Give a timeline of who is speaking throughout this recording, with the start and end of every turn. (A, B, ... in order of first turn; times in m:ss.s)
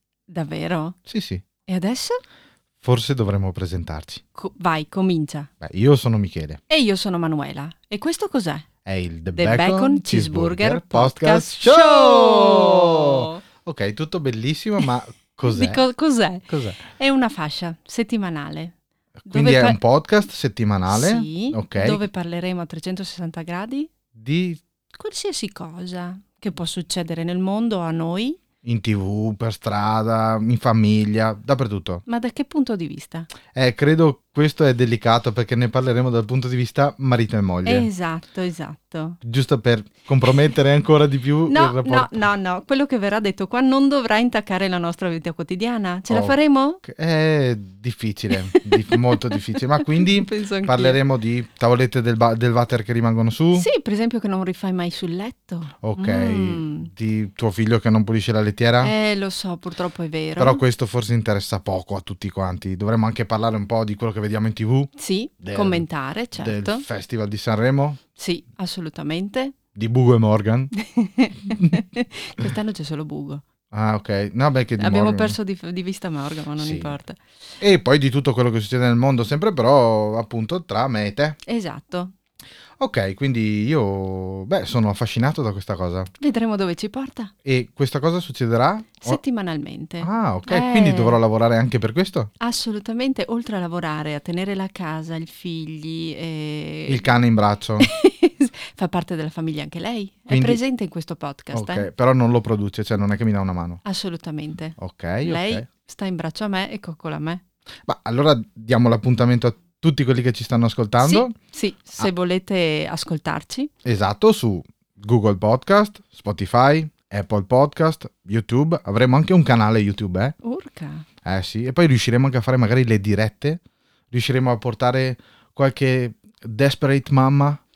0:00.3-0:01.0 A
0:01.0-0:01.4 B
0:01.7-0:02.2 A
0:02.8-0:04.2 B
0:04.3-0:05.5 A
0:05.6-0:06.6 B
0:06.7-0:08.6 A
0:08.8-0:15.8 B
0:09.3-0:13.4 A
0:15.5-0:18.7 A
0:16.5-0:16.8 B
0:19.2-0:22.0 B
0:19.3-0:19.8 A
0:20.9-0:23.9 A
0:24.1-0:24.6 B
0:24.9-0:28.4 A
0:28.6-0:32.0 B
0:32.0-0:33.3 A
0:33.5-0:37.9 B
0:37.6-0:39.2 A
0:39.2-0:42.2 B
0:41.5-0:46.8 A
0:46.1-0:53.7 B
0:48.5-0:49.2 A
0:49.8-0:51.0 A
0:53.5-0:56.9 A
0:55.8-0:58.9 B
0:58.8-1:00.6 A
1:00.4-1:08.0 B
1:05.0-1:06.8 A
1:08.2-1:09.6 A
1:09.7-1:10.7 B
1:10.7-1:13.4 A
1:13.7-1:15.3 B
1:14.8-1:17.2 A
1:16.6-1:16.9 B
1:17.6-1:21.4 B
1:21.4-1:22.1 A
1:22.8-1:26.1 B
1:26.2-1:27.3 A
1:27.4-1:29.2 B
1:29.0-1:31.2 A
1:30.0-1:32.3 B
1:32.4-1:37.1 A
1:36.9-1:37.9 B
1:37.8-1:41.8 A
1:40.3-1:40.6 B
1:41.5-1:43.8 B
1:43.8-1:47.4 A
1:44.8-1:45.6 B
1:47.8-1:51.3 B
1:51.0-1:53.7 A
1:53.8-2:00.4 B
2:00.4-2:01.0 A
2:01.2-2:03.6 B
2:04.1-2:07.6 B